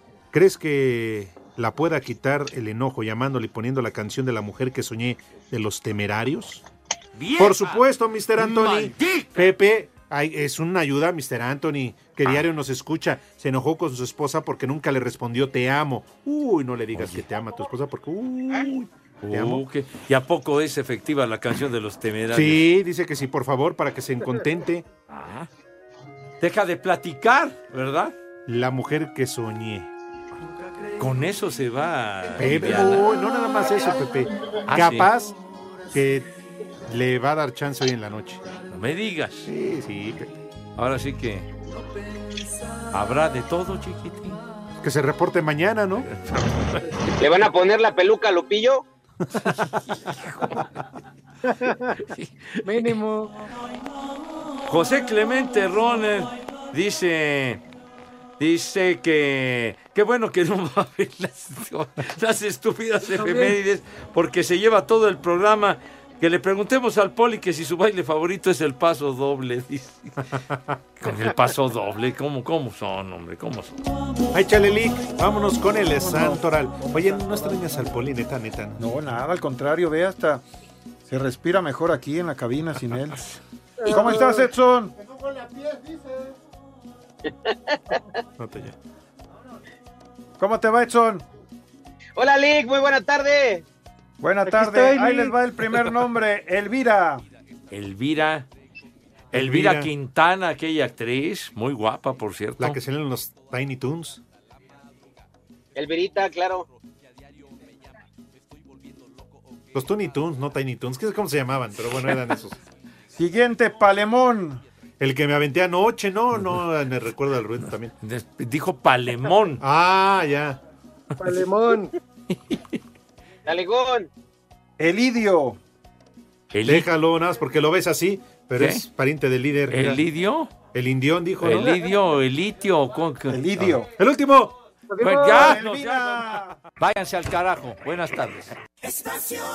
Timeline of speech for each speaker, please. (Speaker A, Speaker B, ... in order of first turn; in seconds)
Speaker A: 0.3-6.6, 7.4-18.8, 19.3-19.6, 22.3-24.8, 28.5-29.9, 32.4-35.3, 35.9-36.2, 36.9-38.4, 39.5-40.3, 44.8-46.1, 74.3-78.8, 88.4-88.7, 99.3-99.9, 102.6-104.2, 109.7-112.5, 115.0-117.9, 119.6-120.6, 126.6-130.0, 130.7-131.8, 134.0-134.5, 135.7-136.4
Speaker B: 7.1-7.8, 8.4-9.5, 16.9-17.2, 19.2-22.6, 25.1-25.5, 26.4-28.1, 31.0-33.0, 34.7-35.1, 38.7-39.5, 40.8-41.5, 42.9-44.4, 46.2-46.9, 49.4-50.9, 52.0-53.0, 54.6-57.6, 58.4-70.2, 71.0-73.8, 83.1-83.4, 97.7-98.5, 99.3-102.8, 118.0-119.6, 122.3-122.8, 126.5-126.9, 128.6-128.8, 129.7-130.5, 131.4-133.8, 135.0-138.5
Speaker C: 47.2-48.8, 87.3-87.5, 92.2-93.6, 105.7-106.7, 123.5-124.1
Speaker D: 51.5-52.0, 52.6-53.3, 63.1-63.5, 83.8-84.5, 94.5-95.4, 121.2-121.9, 134.9-135.6
Speaker E: 76.0-77.4, 78.8-80.4, 81.1-83.2, 83.9-84.9, 90.4-91.2, 94.2-97.2, 113.2-114.6, 124.8-125.6, 133.3-133.9, 135.3-136.5